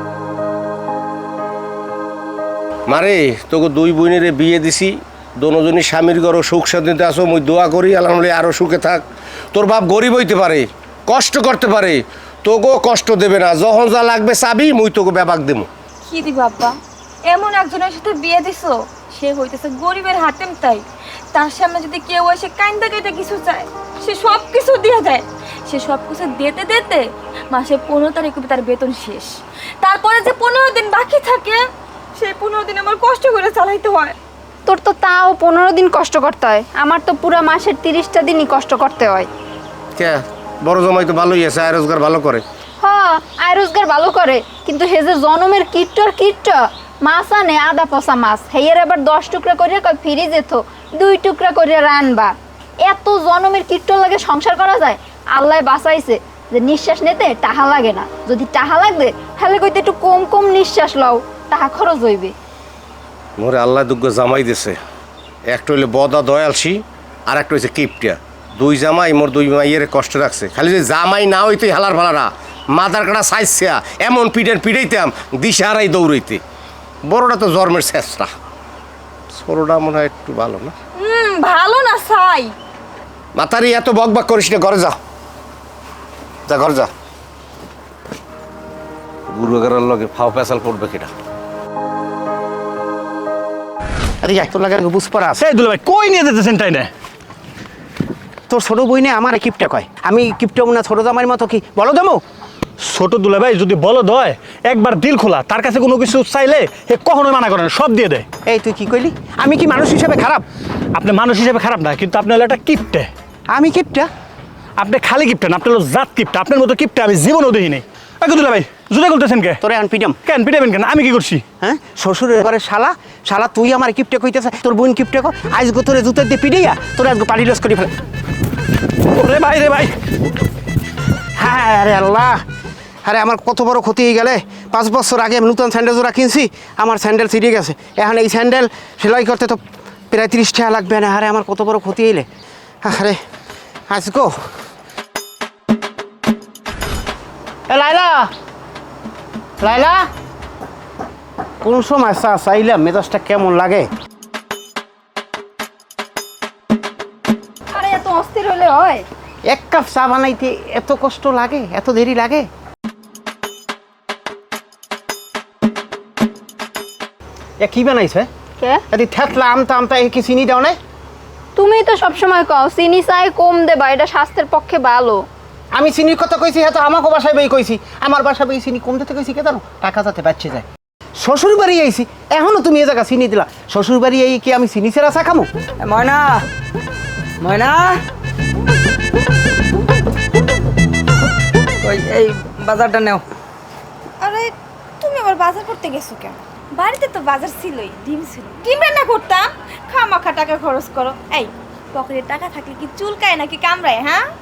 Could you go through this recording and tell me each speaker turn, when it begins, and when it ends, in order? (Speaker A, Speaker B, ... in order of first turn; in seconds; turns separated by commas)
Speaker A: 2.9-15.7, Speaker B: 16.0-16.8, Speaker B: 17.3-31.6, Speaker B: 32.2-34.1, Speaker C: 34.6-39.3, Speaker A: 40.0-42.4, Speaker C: 42.8-62.3, Speaker A: 63.4-64.8, Speaker A: 65.5-76.4, Speaker A: 77.0-78.3, Speaker A: 79.3-80.7, Speaker B: 81.0-82.5, Speaker A: 83.3-85.0, Speaker A: 86.5-86.9, Speaker A: 89.3-91.1, Speaker D: 94.2-95.4, Speaker E: 95.4-96.9, Speaker D: 98.5-102.2, Speaker E: 102.8-108.3, Speaker D: 108.5-110.5, Speaker E: 110.9-113.1, Speaker D: 113.5-114.1, Speaker E: 114.8-119.6, Speaker D: 119.6-120.2, Speaker E: 120.2-121.4, Speaker D: 121.6-127.9, Speaker E: 129.1-129.9, Speaker D: 131.4-132.4, Speaker D: 133.0-142.3, Speaker D: 142.8-143.2, Speaker D: 143.9-144.3, Speaker D: 147.7-148.3, Speaker D: 149.6-150.1, Speaker D: 151.6-153.9, Speaker C: 157.7-159.1, Speaker D: 159.4-162.5, Speaker D: 167.6-168.3, Speaker D: 168.9-170.8, Speaker C: 171.6-175.2, Speaker D: 175.8-180.7, Speaker D: 181.2-185.5, Speaker F: 185.8-186.4, Speaker F: 187.4-188.0, Speaker F: 191.8-193.2, Speaker B: 194.2-204.3